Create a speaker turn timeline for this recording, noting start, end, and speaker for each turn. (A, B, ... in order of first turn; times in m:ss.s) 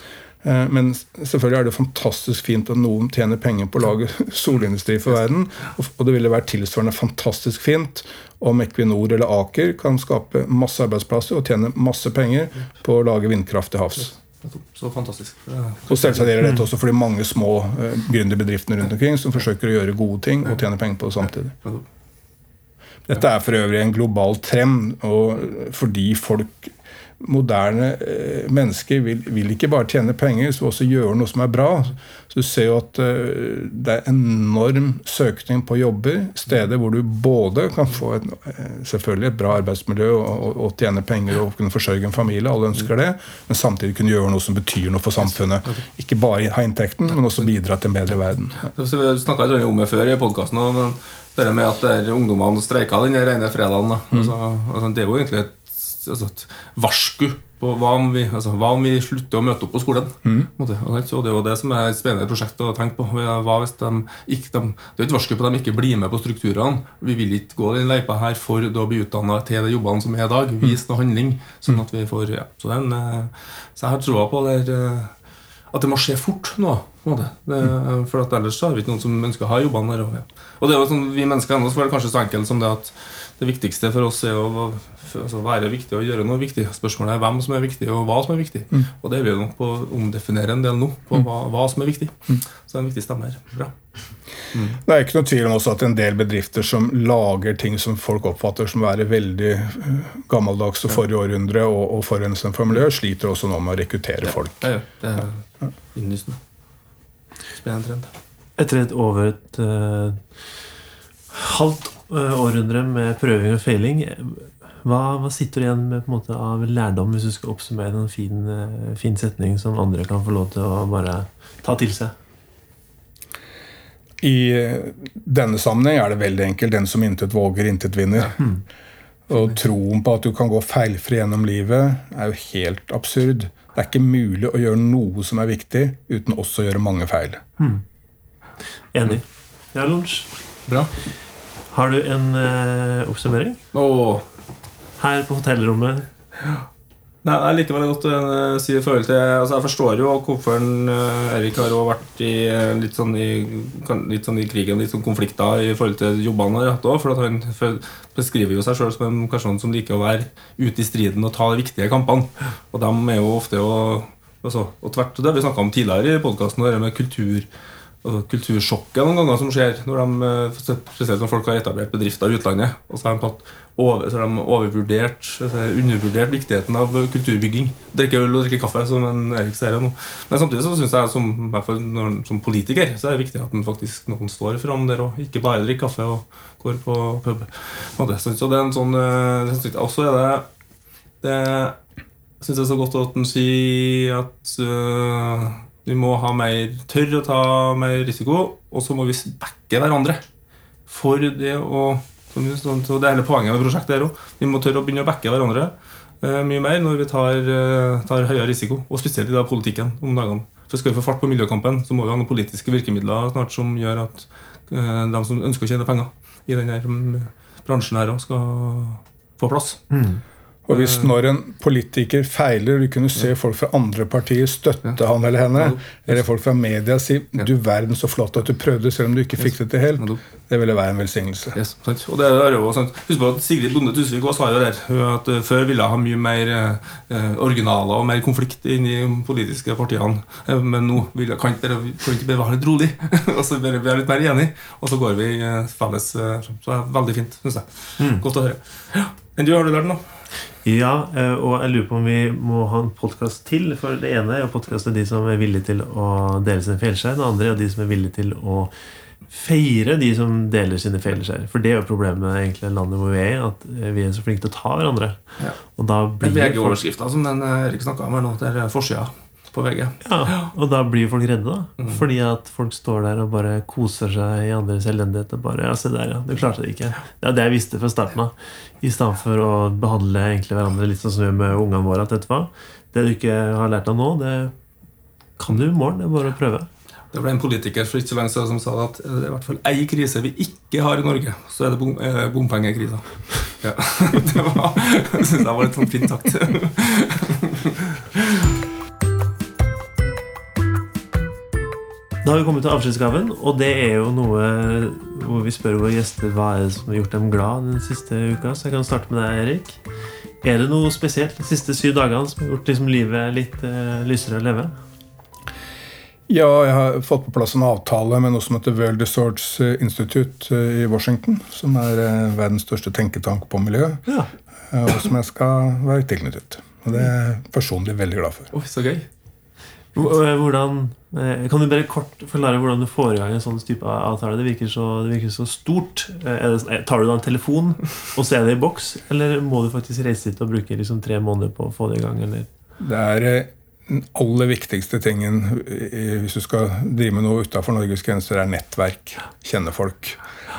0:00.4-0:14.2 A
0:14.4-0:16.4 B
0:15.9-0:21.6 A
0:23.1-0:48.7 A
0:48.7-1:15.1 B
1:15.7-1:33.7 B
1:34.5-1:34.8 B
1:34.8-1:44.7 A
1:44.4-1:45.4 B
1:45.9-1:46.4 B
1:47.6-1:48.1 B
1:48.6-1:50.2 C
1:51.3-2:02.1 C
2:04.2-2:08.4 A
2:09.3-2:17.4 A
2:18.9-2:20.3 C
2:21.7-2:23.6 C
2:23.7-2:24.2 B
2:25.0-2:26.1 C
2:27.2-2:47.5 B
2:48.0-3:10.5 B
3:11.2-3:11.8 B
3:12.4-3:20.2 B
3:20.9-3:40.0 B
3:39.9-3:40.2 C
3:40.7-3:51.6 A
3:40.7-3:41.1 B
3:45.6-3:46.1 B
3:51.5-4:10.0 B
4:08.0-4:08.2 C
4:10.6-4:18.7 C
4:19.3-4:25.2 C
4:25.7-4:26.8 C
4:26.2-4:30.4 B
4:30.0-4:44.5 C
4:45.4-4:46.7 C
4:47.1-4:58.4 B
5:02.2-5:09.8 C
5:10.4-5:14.7 C
5:16.3-5:24.0 A
5:24.7-5:28.5 A
5:28.5-5:29.1 B
5:29.9-5:42.5 C
5:42.8-5:50.2 A